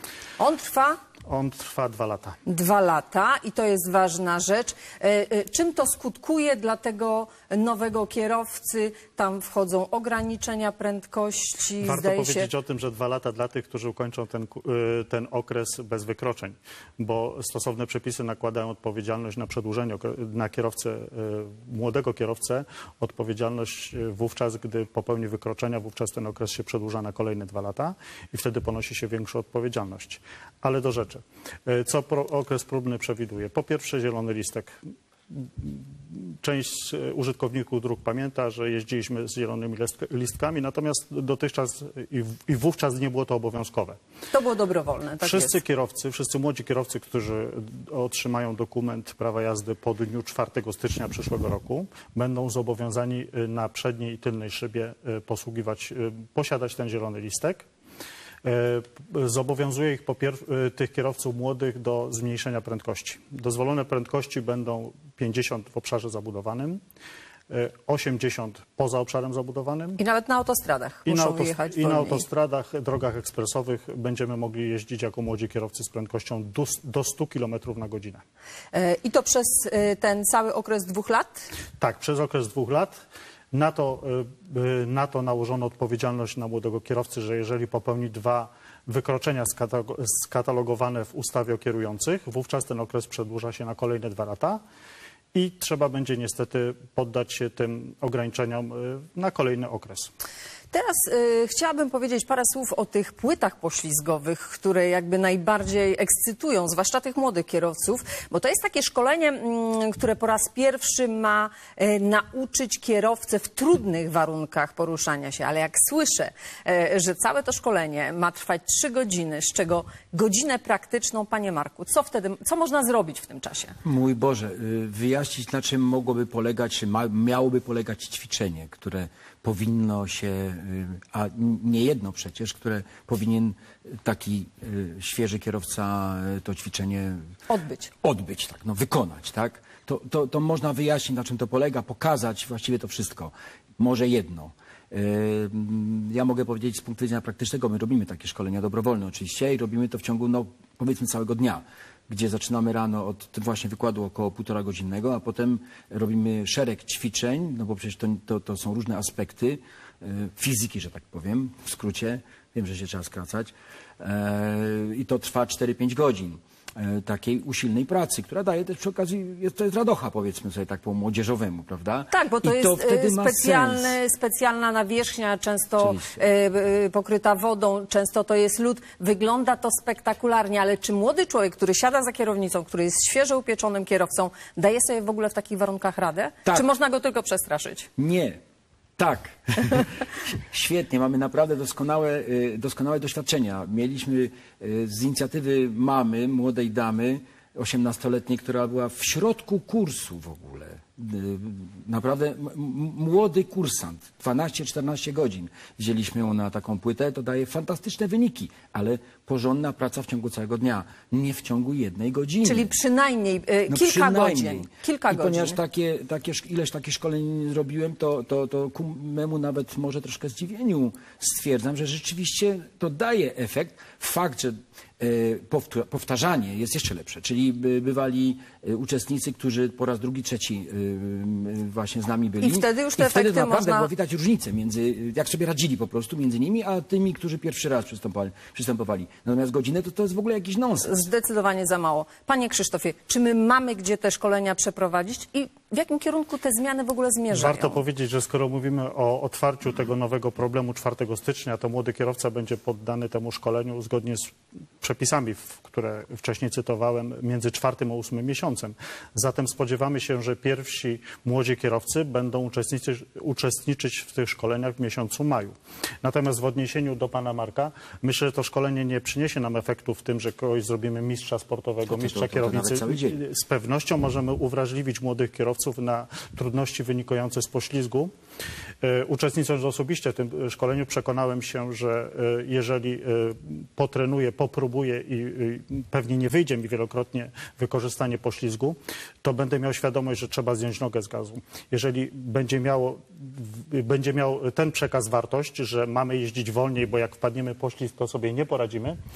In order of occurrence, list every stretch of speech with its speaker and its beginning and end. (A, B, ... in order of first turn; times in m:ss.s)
0:00.4-0:01.0 A
0:01.2-0:02.4 B
0:02.4-0:12.5 A
0:11.8-0:34.7 B
0:35.3-0:44.0 B
0:44.3-0:45.6 A
0:45.2-0:57.6 B
0:58.4-1:06.8 B
1:07.5-1:10.0 B
1:10.0-1:12.2 A
1:11.0-1:18.2 B
1:18.7-1:21.4 A
1:21.8-1:23.0 B
1:23.5-1:34.6 B
1:35.3-1:40.1 B
1:40.7-2:03.8 A
2:03.8-2:17.2 C
2:17.5-2:17.9 A
2:18.0-2:54.0 C
2:52.1-3:07.9 A
2:55.8-2:56.2 C
3:08.0-3:08.4 C
3:09.0-3:32.7 C
3:32.4-3:35.6 A
3:33.7-4:00.9 C
3:52.4-3:53.9 A
4:00.8-4:07.8 A
4:07.3-4:38.1 B
4:31.9-4:33.2 C
4:38.8-4:59.0 B